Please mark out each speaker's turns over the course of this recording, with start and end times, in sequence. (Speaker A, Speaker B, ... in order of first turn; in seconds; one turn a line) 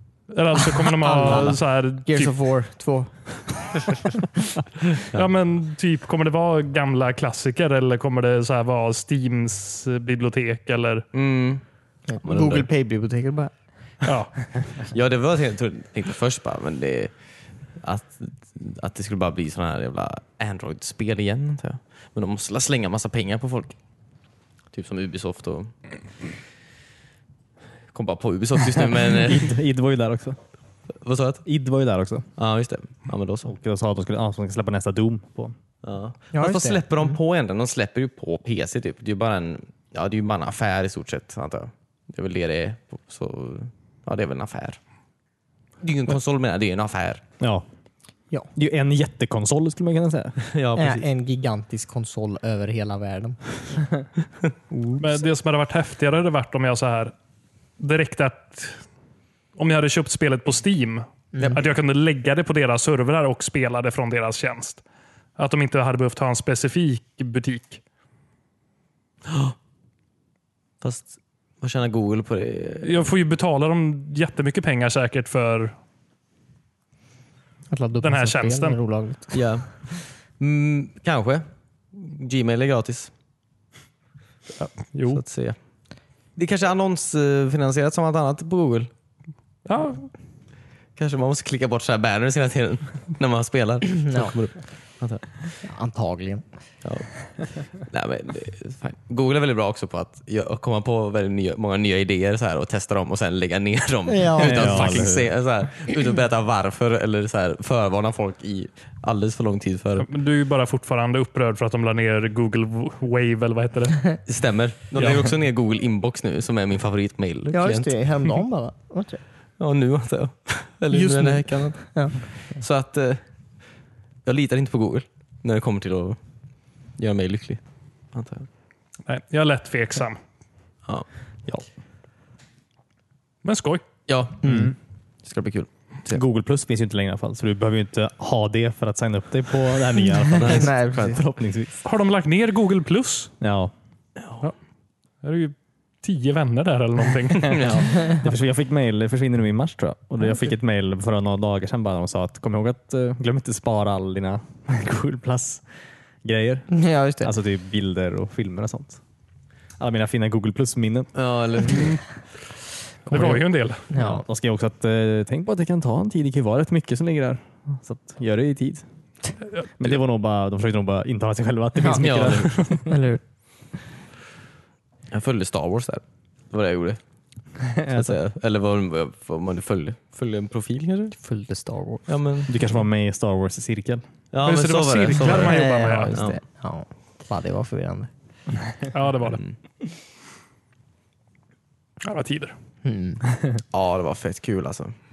Speaker A: 0.3-2.3
Speaker B: 0.8-4.2
Speaker C: 1.2-1.6
Speaker A: 5.1-11.0
Speaker C: 11.1-11.6
Speaker B: 12.1-13.5
Speaker C: 12.2-12.7
Speaker A: 14.0-14.4
Speaker C: 14.9-17.1
Speaker C: 17.8-23.8
Speaker C: 24.7-26.3
Speaker C: 27.9-29.6
Speaker D: 29.1-30.4
Speaker C: 31.0-31.4
Speaker D: 31.4-32.2
Speaker C: 32.4-33.5
Speaker D: 33.5-35.5
Speaker C: 35.8-44.8
Speaker B: 36.3-37.1
Speaker C: 45.8-47.2
Speaker D: 47.4-47.6
Speaker D: 48.5-50.4
Speaker C: 50.5-51.1
Speaker B: 50.8-54.0
Speaker B: 54.7-55.0
Speaker A: 55.0-57.1
Speaker A: 57.8-58.8
Speaker A: 59.5-64.8
Speaker B: 61.3-61.6
Speaker A: 65.4-67.8
Speaker C: 69.3-69.5
Speaker C: 70.8-73.1
Speaker A: 72.8-75.7
Speaker B: 77.7-79.5
Speaker A: 78.0-78.8
Speaker C: 79.3-83.1
Speaker A: 84.6-85.2
Speaker C: 85.1-85.6
Speaker C: 86.3-88.9
Speaker A: 89.7-90.1
Speaker C: 91.0-95.6
Speaker B: 94.0-94.3
Speaker B: 95.6-96.4
Speaker C: 96.8-110.1
Speaker B: 104.1-105.1
Speaker D: 104.4-105.3
Speaker A: 110.0-114.2
Speaker C: 114.2-117.9
Speaker A: 115.0-115.3
Speaker B: 117.5-119.2
Speaker C: 119.6-123.2
Speaker B: 120.9-122.2
Speaker C: 124.2-126.2
Speaker C: 127.0-127.6
Speaker C: 128.1-128.5
Speaker A: 129.1-130.2
Speaker A: 133.4-133.8
Speaker C: 134.1-134.6
Speaker B: 134.4-134.7
Speaker D: 134.4-134.7
Speaker C: 135.2-136.2
Speaker D: 136.1-141.8
Speaker B: 140.4-141.2
Speaker C: 140.4-141.1
Speaker A: 141.8-143.3
Speaker D: 143.4-143.7
Speaker A: 145.2-147.6
Speaker C: 147.5-147.9
Speaker D: 147.5-155.6
Speaker D: 156.2-159.0
Speaker B: 156.7-157.3
Speaker D: 159.8-161.1
Speaker C: 161.1-161.9
Speaker A: 161.7-162.0
Speaker A: 163.1-163.9
Speaker D: 163.1-163.4
Speaker B: 163.9-164.2
Speaker D: 163.9-168.8
Speaker D: 169.8-173.0
Speaker C: 171.9-172.7
Speaker B: 172.8-173.2
Speaker C: 175.1-177.0
Speaker D: 177.6-178.2
Speaker C: 177.9-181.2
Speaker B: 181.2-182.1
Speaker C: 182.1-182.5
Speaker D: 182.5-184.0
Speaker C: 184.3-186.4
Speaker A: 184.4-186.1
Speaker B: 185.2-188.1
Speaker A: 188.9-189.4
Speaker A: 192.0-192.5
Speaker B: 192.8-193.2
Speaker C: 193.7-194.9